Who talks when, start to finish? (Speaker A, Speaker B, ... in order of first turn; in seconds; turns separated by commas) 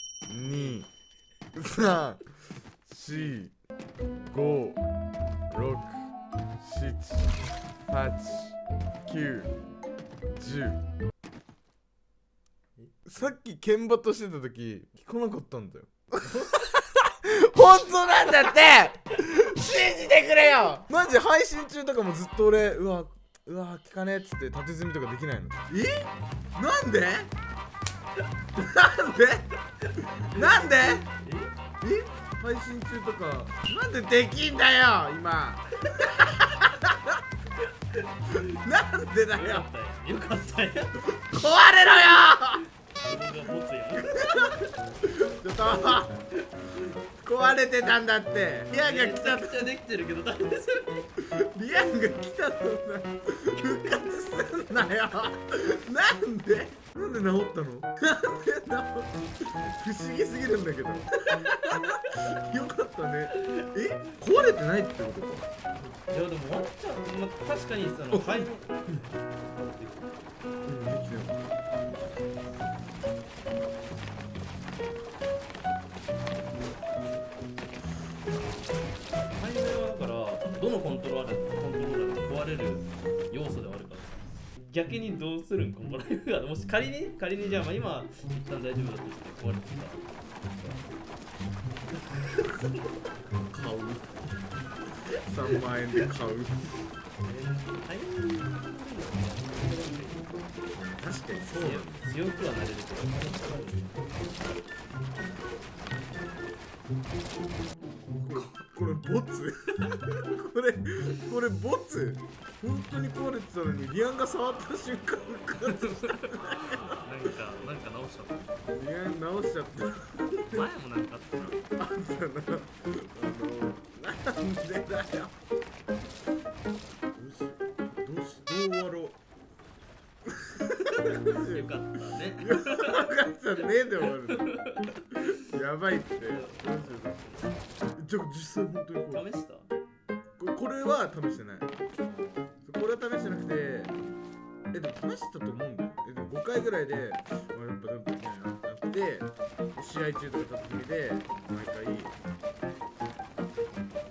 Speaker A: 0.3-0.9, Speaker B: 0.5-0.8, Speaker A: 1.5-3.5, Speaker A: 4.3-4.8, Speaker A: 5.5-6.1, Speaker A: 6.6-9.5, Speaker A: 10.3-10.8, Speaker B: 12.8-13.3, Speaker A: 13.1-27.3, Speaker A: 28.5-31.1, Speaker B: 31.2-31.5, Speaker A: 31.8-37.2, Speaker A: 38.3-39.7, Speaker B: 39.3-41.1, Speaker A: 41.1-42.6, Speaker B: 43.0-44.7, Speaker A: 44.0-46.2, Speaker A: 47.2-49.7, Speaker B: 48.8-51.1, Speaker A: 51.2-65.5, Speaker B: 65.8-70.1, Speaker A: 68.1-68.4, Speaker A: 70.7-71.5, Speaker B: 79.3-90.0, Speaker B: 90.6-90.8, Speaker B: 92.1-92.9, Speaker A: 93.5-94.1, Speaker A: 95.2-96.7, Speaker B: 97.2-100.4, Speaker A: 100.7-102.1, Speaker B: 101.5-104.0, Speaker A: 108.1-117.0, Speaker B: 108.3-108.6, Speaker B: 115.6-118.5, Speaker A: 118.7-120.7, Speaker B: 120.5-121.7, Speaker A: 121.8-125.3, Speaker A: 127.1-129.2, Speaker A: 130.3-131.7, Speaker B: 130.8-133.1, Speaker A: 132.4-134.5, Speaker B: 134.0-135.4, Speaker A: 135.3-137.2, Speaker B: 136.2-137.5, Speaker A: 138.0-139.2, Speaker B: 139.1-139.7, Speaker A: 140.4-141.7, Speaker A: 142.6-144.0, Speaker A: 144.7-152.1